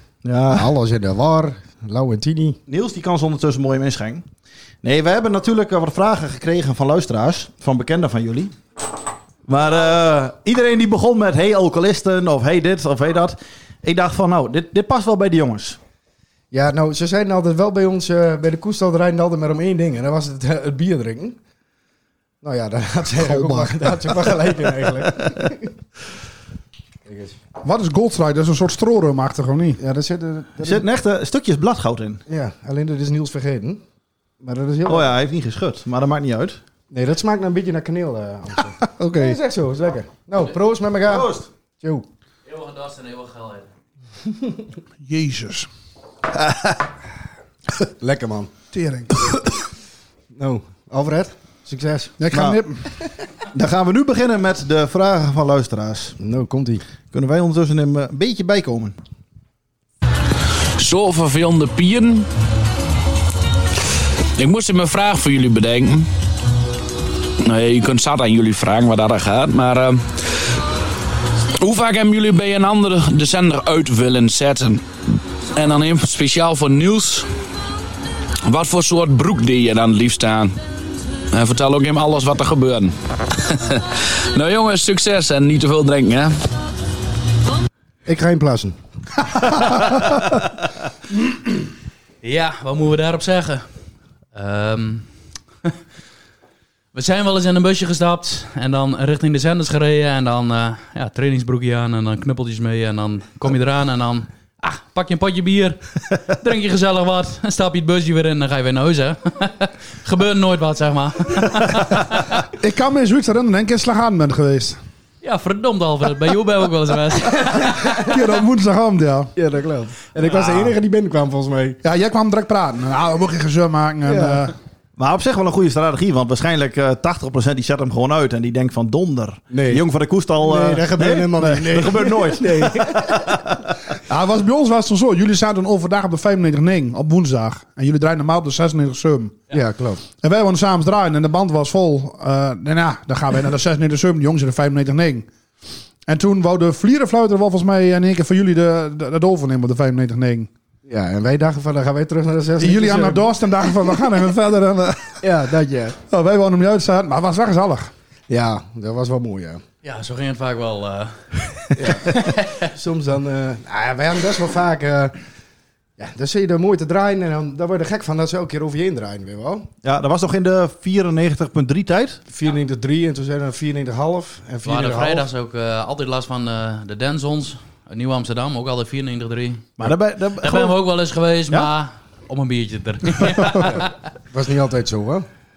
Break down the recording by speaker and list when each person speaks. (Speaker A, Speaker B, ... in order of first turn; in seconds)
Speaker A: 0.2-0.7, 2.7-4.2, 4.8-8.5, 9.5-15.8, 30.6-32.2, 34.9-36.6, 41.0-41.5, 52.3-52.6, 53.5-56.2, 57.1-59.0, 125.0-133.7, 169.8-172.2, 179.8-180.8
Speaker B: 0.5-2.6, 16.5-21.4, 22.4-25.7, 27.1-27.4, 29.8-30.8, 32.3-33.8, 34.4-35.1, 36.9-41.3, 48.0-48.5, 50.3-52.2, 56.2-56.8, 88.0-88.8, 119.3-121.8, 124.1-124.4, 129.5-129.8, 130.4-133.4, 139.5-140.0, 150.8-153.3, 155.2-155.9, 158.3-159.6, 161.8-165.2, 166.0-169.7, 172.3-175.3, 183.7-185.2
Speaker C: 23.2-23.7, 27.6-29.8, 39.0-39.4, 45.0-45.7, 48.7-49.4, 52.2-52.8, 112.6-114.8, 118.1-119.3, 121.8-124.5, 134.1-139.4, 140.2-145.3, 146.1-150.5, 152.6-155.2, 156.1-157.9
Speaker D: 42.5-43.7, 92.2-93.7, 94.3-95.1, 96.9-112.1, 115.2-118.0, 159.8-161.2, 162.0-162.7, 174.6-179.9, 180.4-183.8
Speaker E: 60.8-62.2, 64.4-66.1, 67.4-70.0, 71.6-74.8, 75.5-77.2, 78.5-80.5, 81.3-82.9, 84.3-86.3